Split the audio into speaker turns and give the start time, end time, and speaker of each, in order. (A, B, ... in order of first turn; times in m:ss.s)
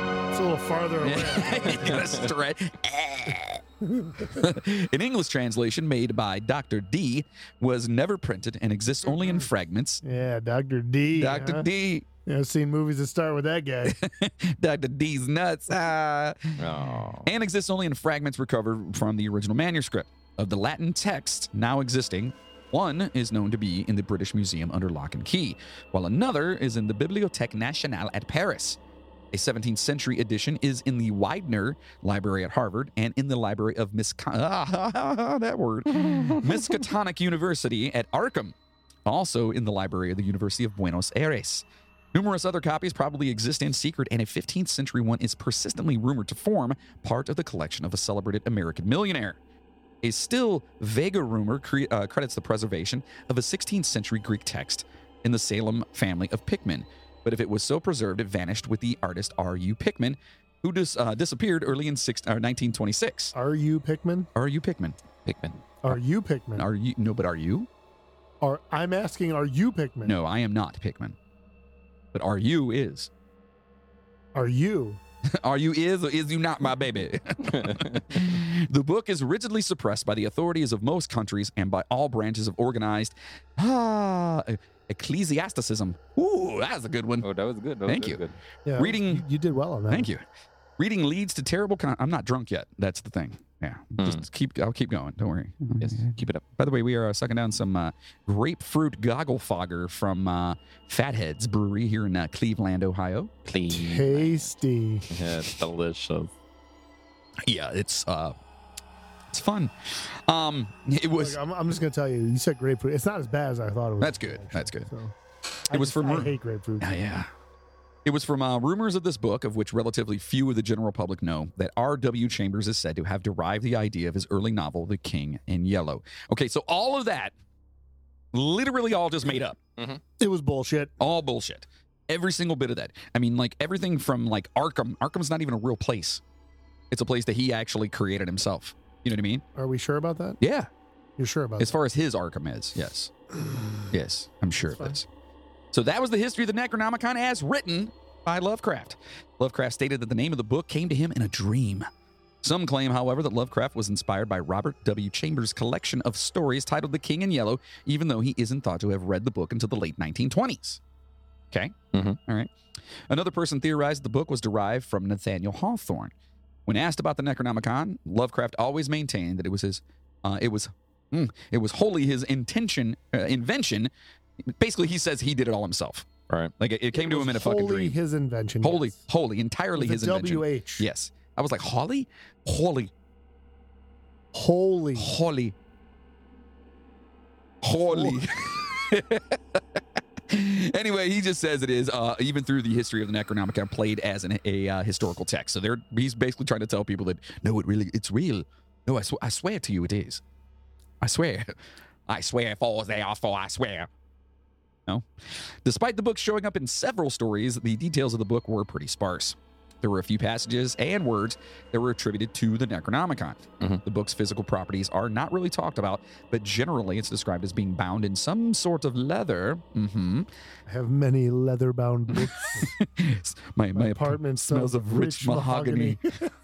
0:00.3-0:02.0 A
0:01.0-0:03.6 B
0:03.9-0:04.3 A
0:04.2-0:10.0 B
0:10.0-0:11.7 A
0:11.2-0:12.1 B
0:12.3-0:14.0 A
0:13.8-0:16.6 B
0:16.6-0:17.3 C
0:17.2-0:28.8 B
0:29.3-0:49.4 B
0:50.0-1:03.3 B
1:03.3-1:04.3 A
1:04.4-1:05.0 B
1:05.3-1:05.6 C
1:05.8-1:06.7 A
1:06.6-1:07.7 B
1:08.4-1:10.2 A
1:10.0-1:11.2 B
1:12.1-1:13.1 B
1:14.4-1:15.0 A
1:15.3-1:27.3 B
1:17.4-1:18.0 C
1:27.2-1:28.4 C
1:27.9-1:28.2 B
1:28.7-1:30.1 A
1:28.8-1:29.2 B
1:29.9-1:30.2 B
1:30.8-1:43.3 B
1:35.8-1:36.4 C
1:43.5-1:44.5 C
1:43.7-1:45.1 A
1:45.1-1:46.3 C
1:47.5-1:48.4 B
1:49.3-1:51.4 B
1:51.2-1:55.2 A
1:54.0-1:54.9 B
1:55.7-1:56.9 A
1:55.7-1:57.3 B
1:58.0-2:07.3 B
2:08.3-2:09.6 B
2:10.2-2:10.9 A
2:11.0-2:16.2 B
2:16.9-2:19.4 B
2:19.6-2:20.4 A
2:20.4-2:20.7 B
2:21.2-2:21.8 A
2:21.6-2:23.1 B
2:23.9-2:25.1 B
2:25.7-2:31.9 B
2:32.4-2:40.8 B
2:41.5-2:42.5 B
2:43.1-2:46.1 B
2:46.7-2:53.9 B
2:54.5-2:58.0 B
2:56.9-2:58.9 A
2:58.6-3:02.9 B
2:59.8-3:00.9 A
3:04.3-3:05.1 A
3:05.0-3:05.6 B
3:07.6-3:20.2 B
3:07.9-3:08.2 A
3:21.0-3:21.5 B
3:22.1-3:23.9 B
3:25.6-3:40.3 B
3:40.7-3:42.8 A
3:42.1-3:46.0 B
3:43.8-3:46.3 A